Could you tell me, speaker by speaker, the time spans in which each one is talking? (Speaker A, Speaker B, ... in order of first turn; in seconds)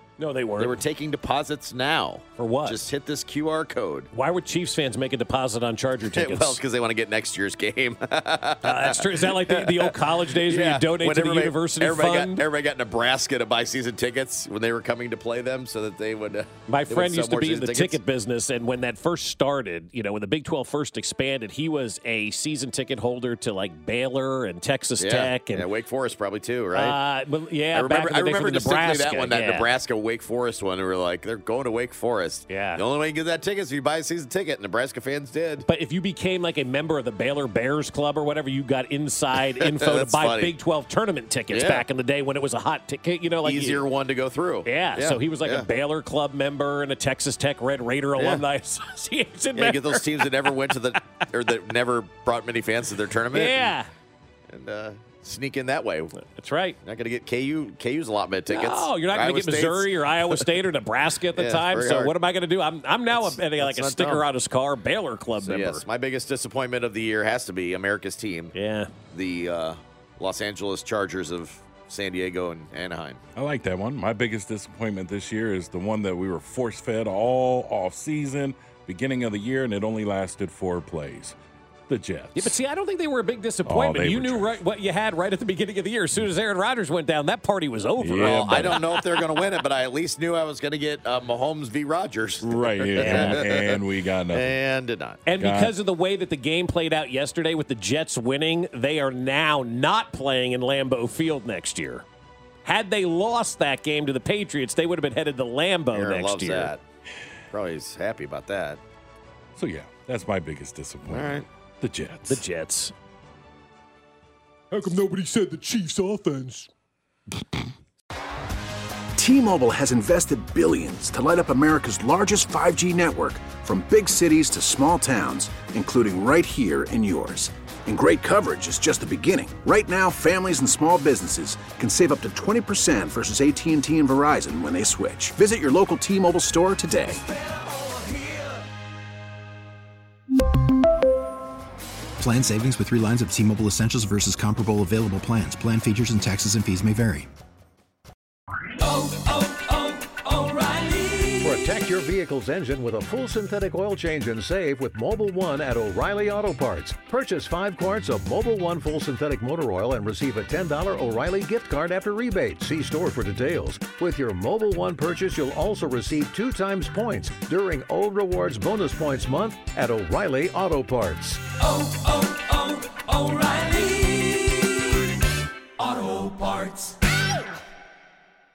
Speaker A: 0.2-0.8, 2.4-2.9, 4.1-6.6, 8.6-12.4, 16.7-25.7, 26.7-29.7, 32.5-32.8, 35.6-43.9, 44.6-50.9, 53.3-53.9, 56.1-56.8, 58.5-65.8, 68.5-68.9, 82.3-89.6, 93.0-93.4, 95.2-102.0, 102.6-106.7, 112.3-112.9, 176.1-176.6
Speaker B: 0.6-4.1, 6.0-18.0, 25.0-26.9, 27.7-35.6, 39.5-40.5, 41.5-41.8, 43.4-45.7, 48.2-48.4, 49.5-53.7, 54.5-56.1, 56.8-60.4, 61.3-62.1, 63.1-64.2, 65.4-68.5, 69.1-73.2, 88.1-95.2, 105.9-106.8, 107.5-108.8, 111.0-111.5
Speaker C: 73.3-81.3, 81.9-82.5, 83.7-84.5, 88.0-88.8, 92.4-94.5, 95.4-95.7, 109.6-111.2, 111.8-112.4
Speaker D: 119.2-137.2
Speaker E: 142.2-147.2
Speaker F: 151.4-171.4